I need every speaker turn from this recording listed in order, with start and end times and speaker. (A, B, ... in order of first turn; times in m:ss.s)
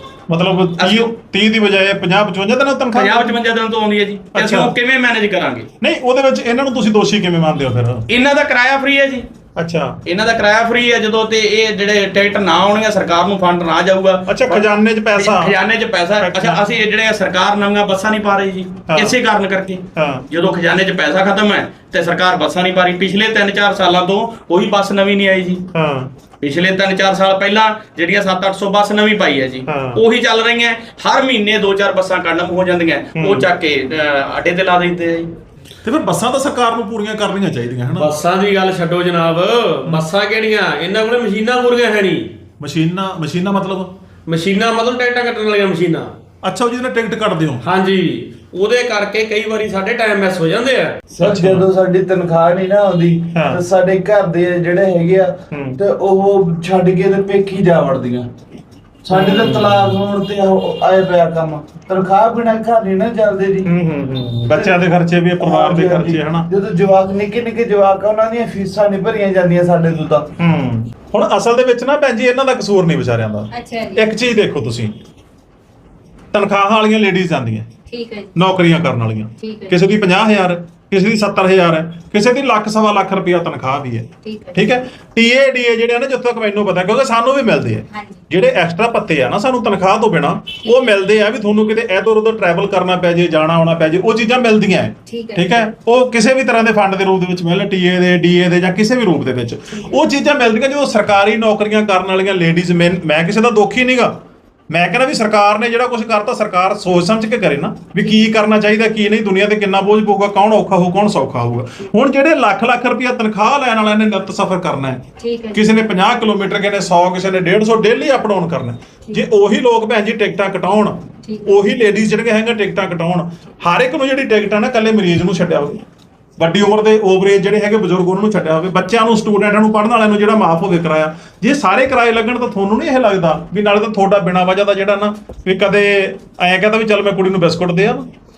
0:00.3-0:03.4 A
0:00.8-0:01.1 B
0:02.9-0:05.7 B
0:04.3-0:04.7 A
0:05.8-0:08.0 A
0:08.1-0:09.2 B
0:09.6-0:10.0 A
0:10.0-0:25.6 B
0:14.3-0:15.5 A
0:16.2-0:16.6 A
0:18.9-0:19.2 A
0:20.0-0:20.2 A
0:25.7-0:26.1 A
0:26.4-0:35.3 B
0:29.7-0:30.0 A
0:33.2-0:33.5 A
0:35.8-0:38.1 A
0:38.1-0:42.3 C
0:42.6-0:43.9 A
0:44.3-0:46.1 C
0:46.4-0:47.6 A
0:47.7-0:48.3 C
0:48.9-0:50.9 C
0:51.1-0:58.3 D
0:51.2-0:51.7 A
0:53.3-0:53.6 A
0:55.5-0:55.8 A
0:59.0-1:03.7 D
0:59.1-1:00.0 A
1:03.6-1:06.5 A
1:05.4-1:10.3 D
1:10.4-1:14.9 A
1:13.5-1:14.0 E
1:16.3-1:17.7 A
1:17.9-1:18.3 E
1:18.4-1:44.1 A
1:19.4-1:19.7 E
1:24.2-1:24.6 E
1:27.9-1:28.2 E
1:35.1-1:35.7 E
1:44.7-1:55.0 A
1:55.2-1:55.6 E
1:55.5-2:05.8 A
2:01.2-2:01.5 E
2:06.4-2:18.1 A